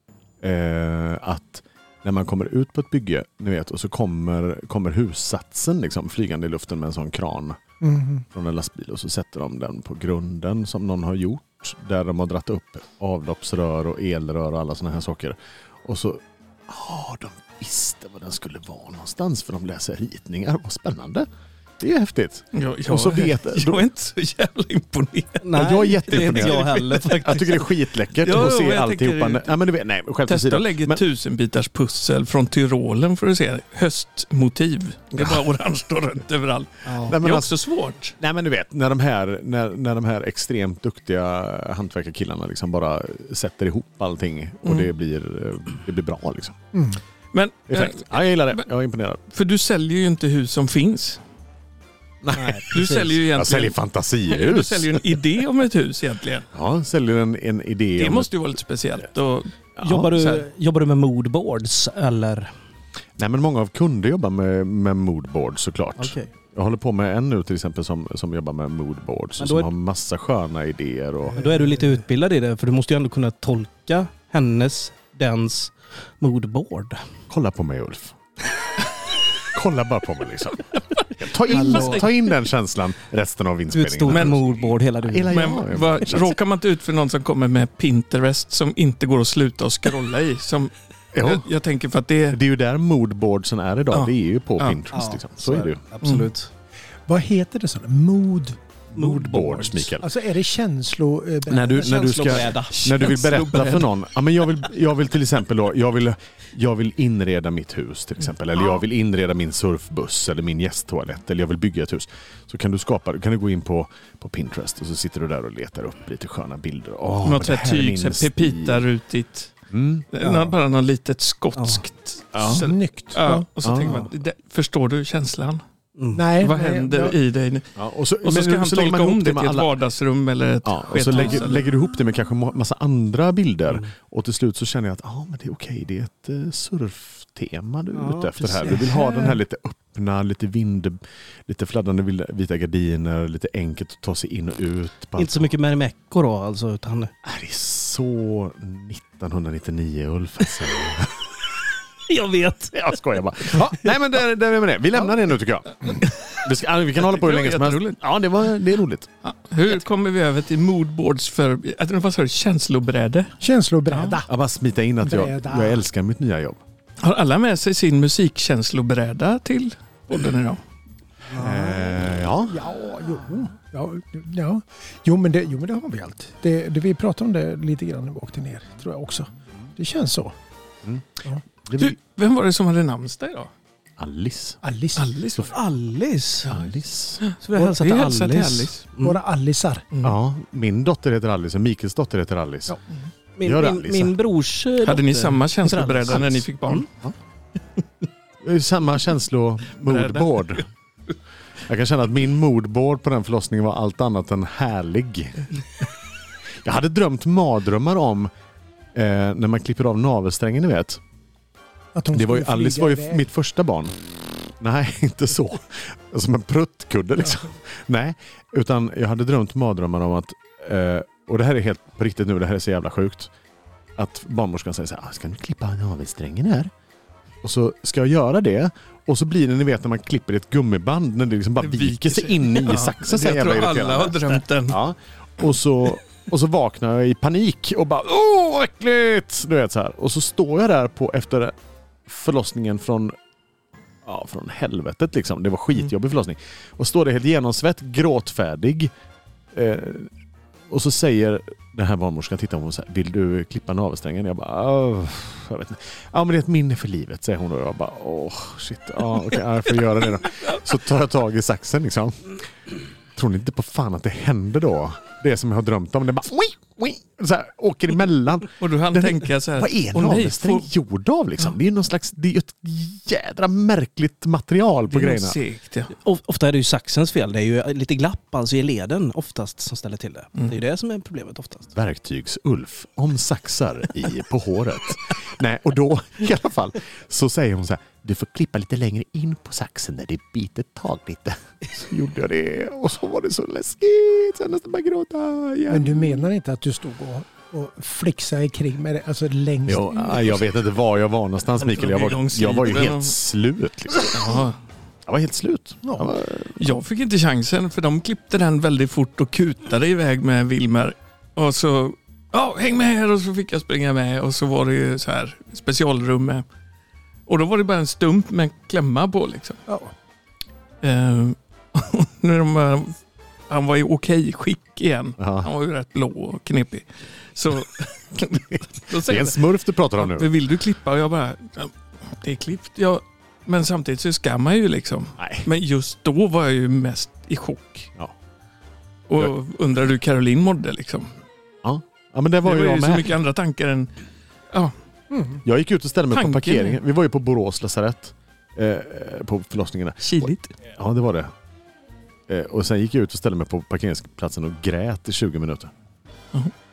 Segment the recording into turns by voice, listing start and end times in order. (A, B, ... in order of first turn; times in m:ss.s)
0:00.4-0:07.6 A
0:07.8-0:08.2 B
0:08.3-0:21.3 A
0:21.8-0:23.8 A
0:22.5-0:25.5 C
0:25.4-0:27.6 D
0:25.5-0:31.0 A
0:26.1-0:27.4 C
0:28.2-0:29.6 C
0:30.3-0:38.2 C
0:36.8-0:37.1 D
0:37.0-0:37.5 A
0:38.2-0:46.6 A
0:44.6-0:44.9 C
0:46.7-0:47.0 B
0:47.3-0:48.6 C
0:47.7-0:49.2 A
0:49.3-0:51.2 C
0:52.2-0:55.2 A
0:52.3-0:53.2 D
0:52.7-0:56.5 C
0:56.5-0:58.3 A
0:58.0-0:59.5 C
0:59.8-1:00.1 A
0:59.8-1:02.5 D
1:00.1-1:00.4 C
1:03.2-1:11.4 A
1:06.0-1:06.3 D
1:09.4-1:09.7 D
1:11.3-1:17.0 D
1:17.3-1:18.2 A
1:19.5-1:26.3 A
1:21.5-1:22.0 C
1:21.5-1:22.1 D
1:23.7-1:25.5 D
1:24.1-1:24.5 C
1:25.3-1:32.4 C
1:31.1-1:31.5 A
1:32.3-1:35.8 A
1:33.9-1:34.8 C
1:34.9-1:36.5 D
1:36.0-1:36.3 C
1:37.1-1:38.6 B
1:38.9-1:40.0 A
1:38.9-1:40.0 D
1:40.0-1:42.1 B
1:41.5-1:58.8 A
1:41.8-1:42.8 D
1:42.7-1:43.9 C
1:57.2-1:59.5 C
1:59.7-2:00.1 A
2:00.1-2:05.6 C
2:01.6-2:01.8 D
2:02.3-2:02.6 A
2:02.4-2:03.5 B
2:03.6-2:04.1 A
2:06.0-2:06.3 D
2:06.1-2:07.2 B
2:06.4-2:07.7 C
2:07.8-2:09.7 A
2:08.2-2:11.6 C
2:10.6-2:25.5 A
2:17.9-2:19.4 D
2:25.2-2:27.1 D
2:27.2-2:31.1 A
2:32.1-2:33.0 D
2:32.7-2:39.1 A
2:37.0-2:38.0 C
2:39.2-2:43.3 C
2:43.4-2:44.3 B
2:44.2-2:46.6 A
2:45.0-2:45.8 B
2:47.0-2:50.6 C
2:51.3-2:51.8 D
2:51.3-2:52.6 A
2:52.5-3:00.3 B
3:01.6-3:02.0 A
3:01.8-3:03.5 C
3:04.0-3:04.6 A
3:04.6-3:05.1 B
3:05.0-3:05.5 C
3:05.5-3:06.5 D
3:06.5-3:07.2 A
3:07.2-3:08.8 C
3:07.4-3:09.2 D
3:09.0-3:09.8 B
3:10.0-3:12.7 A
3:13.4-3:16.9 D
3:13.4-3:14.1 A
3:14.8-3:16.9 C
3:18.4-3:20.6 A
3:19.8-3:20.6 C
3:21.7-3:25.4 A
3:26.6-3:28.3 A
3:28.9-3:31.0 A
3:31.9-3:33.2 B
3:32.1-3:34.0 A
3:34.6-3:43.3 A
3:44.0-3:46.7 A
3:47.4-4:01.5 A
3:51.6-3:54.8 C
4:02.1-4:03.2 A
4:04.0-4:08.9 A
4:09.5-4:10.1 A
4:10.7-4:22.3 A
4:20.2-4:20.6 C
4:23.1-4:35.4 A
4:28.6-4:30.7 C
4:34.9-4:35.9 C
4:36.0-4:41.7 D
4:41.7-4:56.3 A
4:55.7-5:00.4 B
4:59.7-5:04.3 A
5:01.6-5:03.2 C
5:04.0-5:04.6 C
5:05.1-5:06.7 A
5:06.6-5:16.4 C
5:17.3-5:19.6 C
5:19.7-5:19.9 B
5:20.8-5:23.0 C
5:23.5-5:29.4 C
5:25.2-5:25.5 A
5:28.9-5:30.3 A
5:30.0-5:37.9 C
5:35.2-5:35.5 A
5:39.1-5:41.1 C
5:41.6-5:43.1 A
5:42.4-5:43.9 C
5:45.1-5:45.4 B
5:45.4-5:51.3 A
5:46.1-5:46.8 C
5:50.0-5:50.5 C
5:52.3-5:55.7 A